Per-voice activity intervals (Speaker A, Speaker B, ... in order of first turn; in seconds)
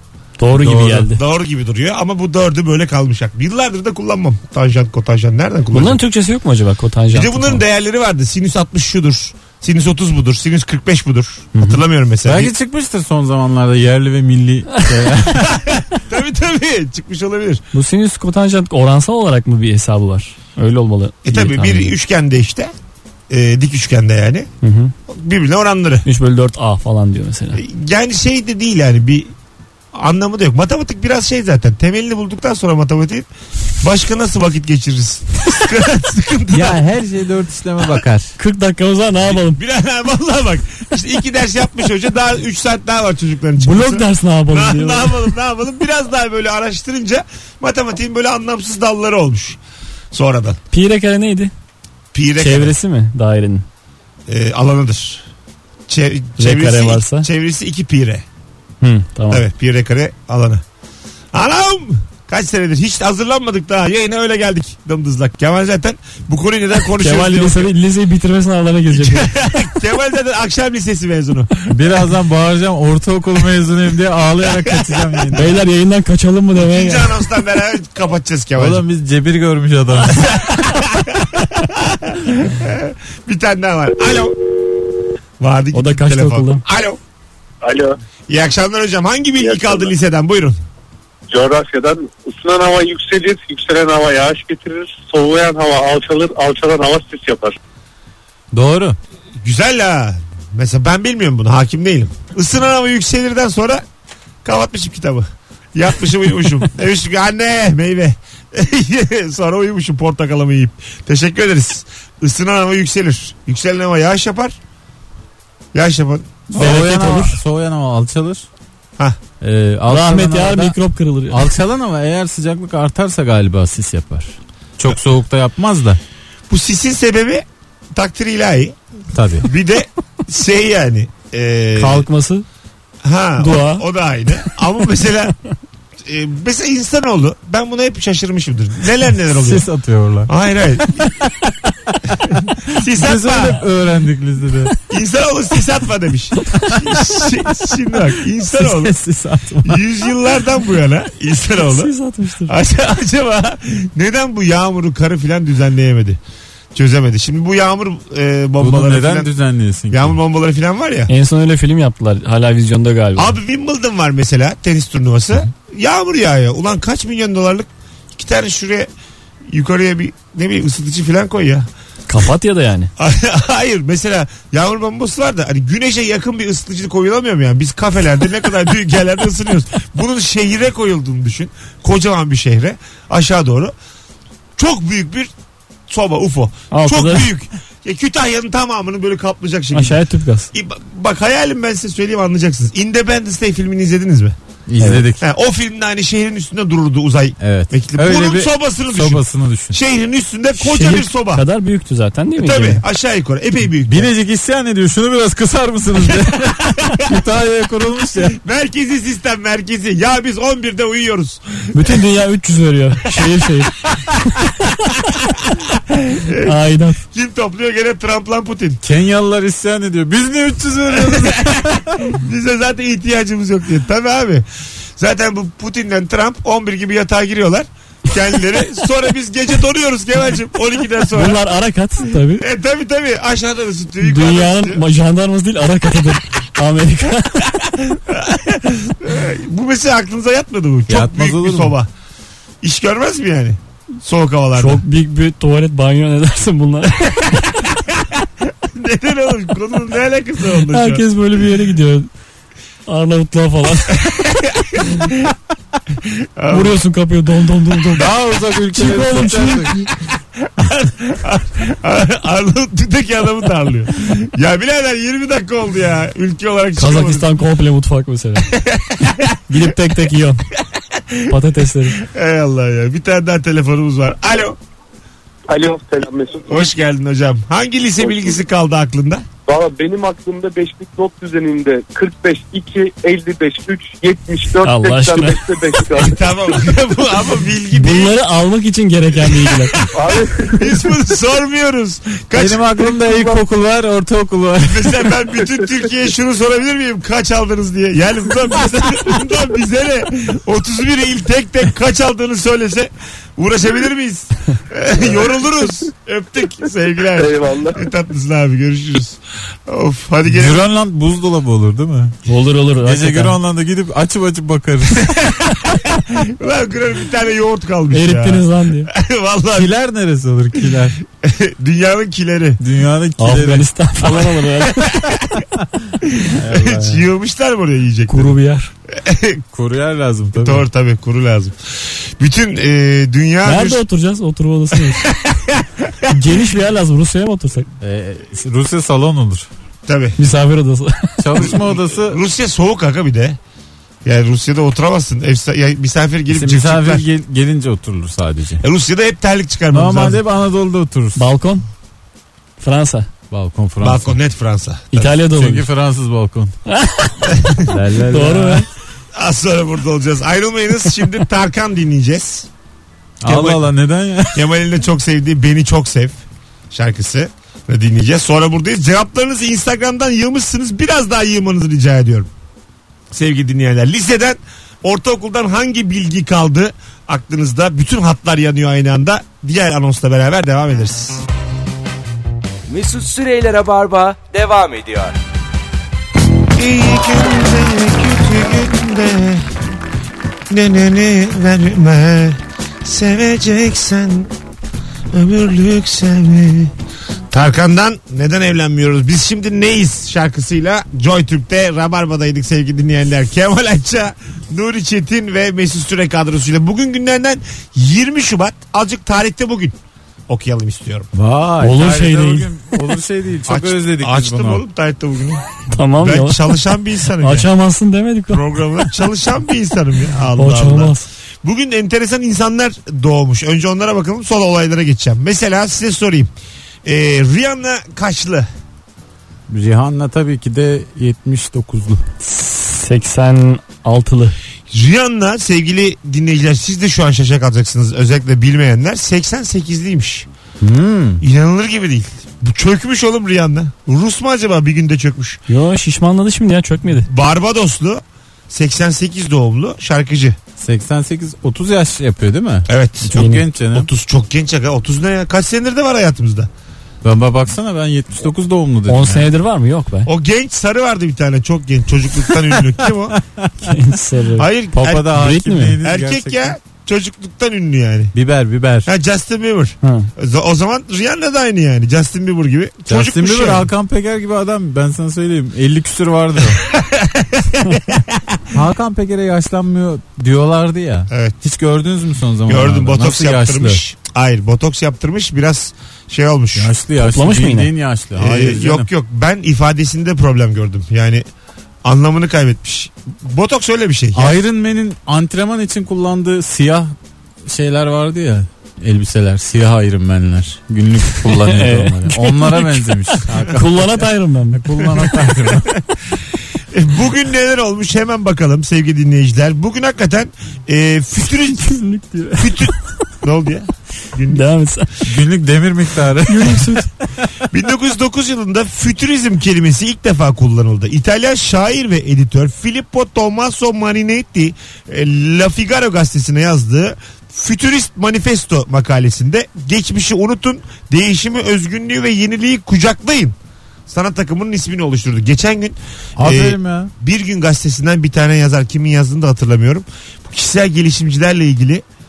Speaker A: 0.4-1.2, 5.7-7.6, 11.6-11.8, 17.7-22.0, 24.6-24.9, 26.1-27.6, 38.4-39.6, 43.6-45.3, 50.7-51.5, 52.4-53.6, 56.4-57.3, 58.8-59.4, 67.0-69.3, 75.3-77.2, 85.7-86.6, 116.5-117.4, 119.9-121.5, 131.8-132.4, 133.4-133.8, 151.6-152.6, 161.1-163.4, 172.1-172.9, 186.7-187.3, 189.7-190.5, 200.6-202.8, 211.7-213.7, 214.3-214.7, 216.4-217.0, 231.1-232.4, 234.0-237.5, 244.6-247.6, 250.7-252.1, 252.9-254.1, 256.5-258.1, 258.7-259.9, 266.8-268.5, 269.5-270.4, 271.3-272.0, 284.6-285.4, 287.8-289.8, 312.3-313.4, 317.9-318.9, 323.2-325.0, 328.1-328.7, 333.4-335.1, 336.1-337.7, 340.2-341.5, 351.2-351.6, 352.6-353.1, 354.9-355.7, 356.7-358.7, 411.6-412.5, 415.7-416.5, 417.2-418.6, 420.4-421.1, 432.2-434.4, 445.5-447.1, 453.2-453.4, 458.9-460.1, 463.6-464.5, 465.1-465.8, 469.8-470.1, 487.0-487.7, 501.2-505.1, 511.5-512.7, 514.3-514.9, 516.3-516.9
Speaker B: 0.6-6.0, 7.1-12.5, 15.4-17.6, 21.2-22.7, 23.3-24.5, 25.1-26.1, 27.5-29.3, 29.9-33.3, 33.8-36.8, 39.3-49.6, 50.1-50.6, 52.1-52.8, 54.3-55.2, 55.9-58.2, 59.3-60.6, 61.3-67.7, 68.9-71.9, 74.5-75.4, 76.6-78.8, 80.1-84.4, 85.4-87.0, 88.3-90.6, 99.4-103.8, 104.4-114.6, 115.7-116.7, 126.5-128.8, 129.4-132.1, 133.0-135.4, 136.1-139.7, 140.3-141.1, 142.7-143.6, 144.9-148.9, 149.7-151.9, 152.4-156.2, 156.7-159.3, 159.9-161.1, 163.2-168.9, 169.5-171.7, 173.0-183.7, 184.6-185.3, 185.9-190.0, 190.5-194.4, 195.2-201.4, 202.4-204.1, 206.3-207.2, 208.3-212.0, 215.2-218.8, 221.0-224.4, 225.0-231.4, 232.3-234.8, 237.7-241.9, 242.6-244.8, 247.7-251.1, 253.9-255.3, 256.0-256.8, 260.4-267.3, 268.5-269.6, 270.8-271.4, 271.9-274.6, 276.5-279.2, 285.9-288.2, 289.2-289.8, 290.5-292.7, 294.6-310.6, 315.0-319.7, 321.2-322.6, 324.5-325.4, 326.0-328.4, 328.9-329.4, 330.4-333.8, 334.9-336.2, 339.9-340.2, 341.4-343.4, 344.1-347.1, 348.6-350.2, 353.8-355.1, 359.2-362.5, 363.2-363.7, 364.3-366.2, 366.7-372.3, 373.1-381.2, 386.6-389.5, 390.5-394.3, 395.1-396.7, 397.3-409.8, 410.3-411.1, 413.5-415.4, 416.0-417.5, 418.3-426.3, 426.9-428.5, 434.7-440.3, 441.2-445.4, 447.1-450.4, 452.7-456.5, 460.1-463.2, 464.4-465.2, 465.8-468.1, 468.9-473.7, 476.6-478.4, 481.1-481.4, 482.5-486.7, 488.2-491.2, 491.9-494.4, 506.7-511.8, 512.4-514.5, 517.5-533.4, 533.9-541.8
Speaker C: 12.2-15.6, 36.5-38.4, 71.7-75.6, 78.6-80.4, 98.5-99.0, 116.5-118.5, 119.4-120.8, 121.3-126.0, 129.1-129.5, 139.3-140.3, 141.3-141.9, 142.7-144.7, 148.5-149.8, 158.6-160.2, 194.7-195.2, 197.4-199.8, 203.9-208.4, 218.8-222.1, 240.9-241.8, 258.0-259.8, 292.4-295.1, 310.3-312.2, 312.8-315.2, 319.5-321.0, 322.6-323.7, 326.4-327.0, 329.5-330.6, 337.8-339.5, 341.2-342.2, 346.3-348.6, 349.7-351.2, 353.3-354.2, 355.3-356.6, 357.7-358.7, 363.2-364.5, 411.1-414.6, 429.5-432.0, 440.6-441.2, 450.6-453.9, 457.0-459.3, 463.1-463.8, 464.7-466.6, 468.1-468.9, 472.9-476.7, 478.5-483.8, 486.6-488.9, 494.1-496.9, 497.5-505.7, 515.1-516.9, 536.2-536.9
Speaker D: 87.6-88.0, 89.4-89.9, 91.3-97.6, 275.5-276.7, 278.0-278.4, 279.5-286.2, 289.9-290.6, 307.1-307.8
Speaker E: 382.7-385.2